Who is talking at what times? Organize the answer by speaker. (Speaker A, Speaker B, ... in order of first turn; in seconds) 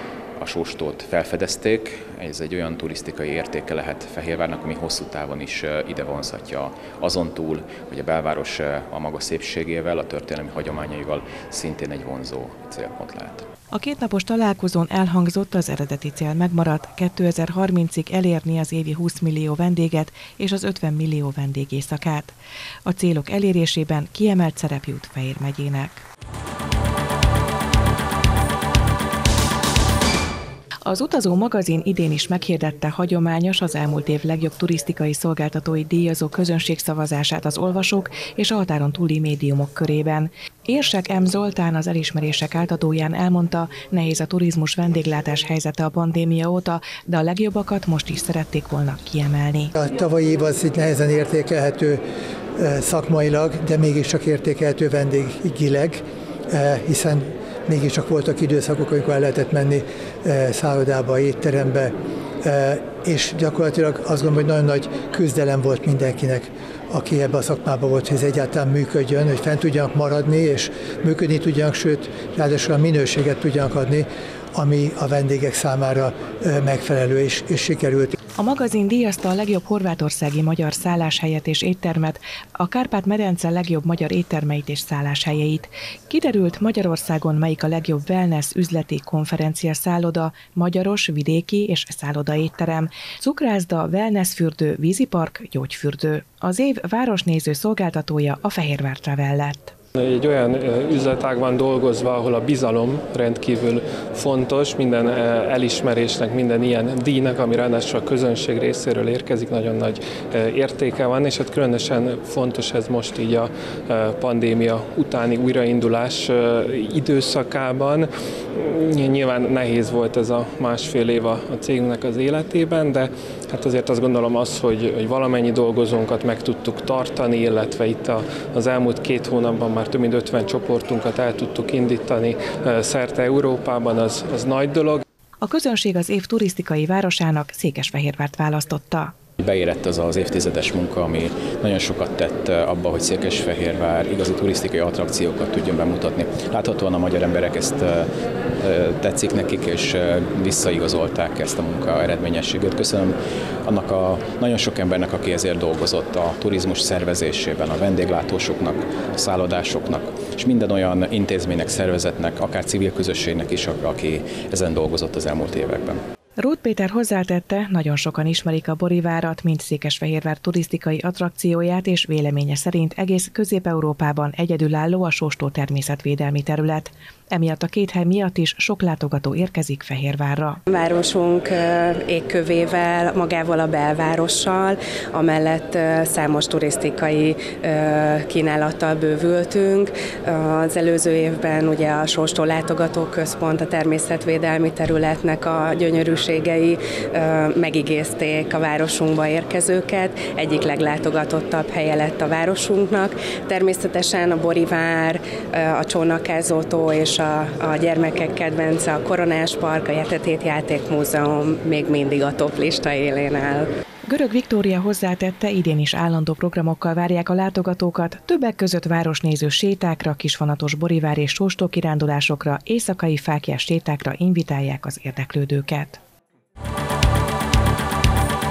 Speaker A: 0.4-13.5, 139.4-166.0
Speaker B: 13.7-22.3, 22.9-26.0, 30.9-49.7, 78.4-99.7, 135.4-139.1, 166.4-180.6, 214.1-226.0
Speaker C: 49.8-52.0, 52.6-78.1
Speaker D: 100.0-135.0
Speaker E: 180.7-213.7